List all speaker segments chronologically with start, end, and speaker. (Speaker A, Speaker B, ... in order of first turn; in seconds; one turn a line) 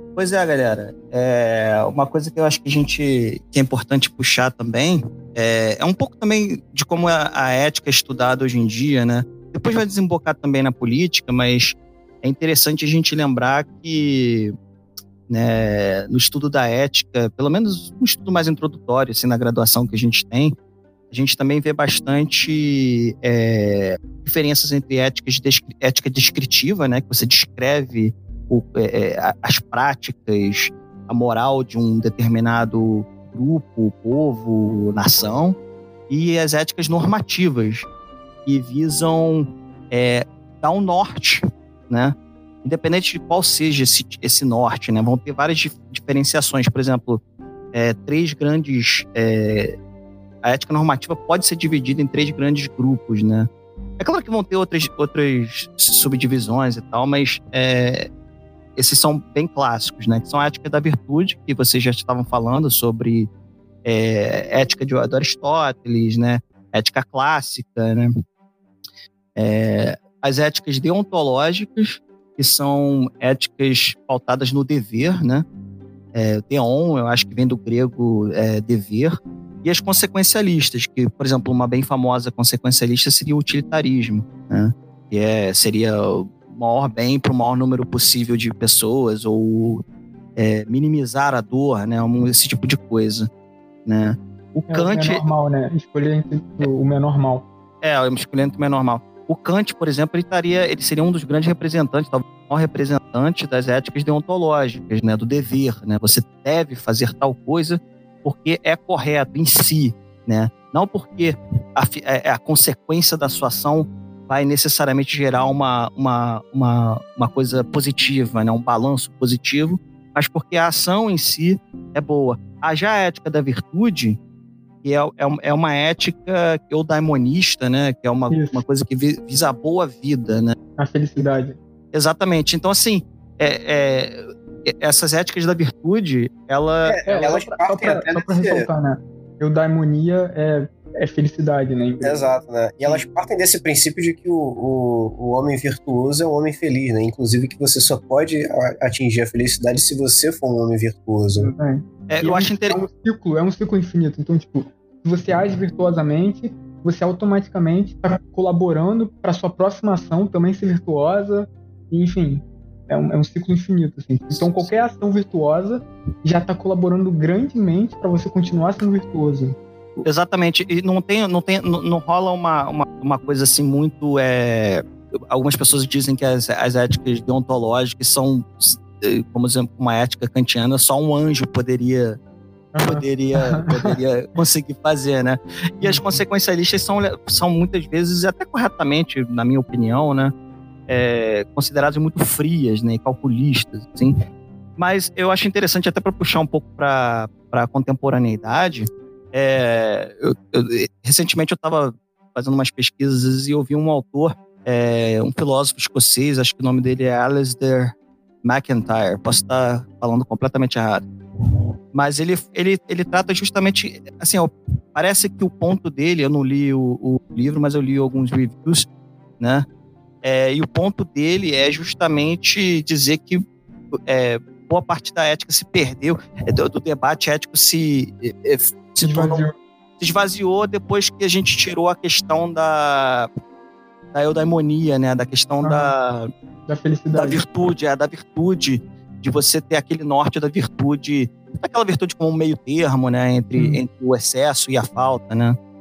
Speaker A: 0.1-14.5
Speaker A: 15.3-20.5
Speaker A: 21.1-35.6
Speaker A: 36.1-37.9
Speaker A: 38.5-47.2
Speaker A: 47.7-49.8
Speaker A: 50.4-58.1
Speaker A: 58.8-63.3
Speaker A: 63.8-68.1
Speaker A: 69.3-75.4
Speaker A: 76.1-89.8
Speaker A: 90.3-93.3
Speaker A: 93.8-95.2
Speaker B: 94.7-97.5
Speaker A: 97.8-124.2
Speaker A: 124.8-130.6
Speaker B: 128.3-128.6
Speaker B: 130.8-131.6
Speaker A: 131.9-137.3
Speaker C: 136.8-138.7
Speaker B: 137.1-142.2
Speaker C: 142.0-151.5
Speaker B: 151.3-170.0
Speaker A: 152.1-152.8
Speaker A: 164.3-164.7
Speaker A: 170.0-182.2
Speaker B: 182.7-183.9
Speaker A: 182.8-190.3
Speaker B: 185.8-186.2
Speaker A: 190.9-194.2
Speaker A: 194.8-211.1
Speaker A: 211.9-218.9
Speaker A: 219.4-219.7
Speaker A: 220.2-229.4
Speaker B: 229.0-229.5
Speaker A: 230.0-233.3
Speaker A: 234.1-236.3
Speaker B: 235.6-235.9
Speaker B: 236.7-237.4
Speaker A: 237.1-245.6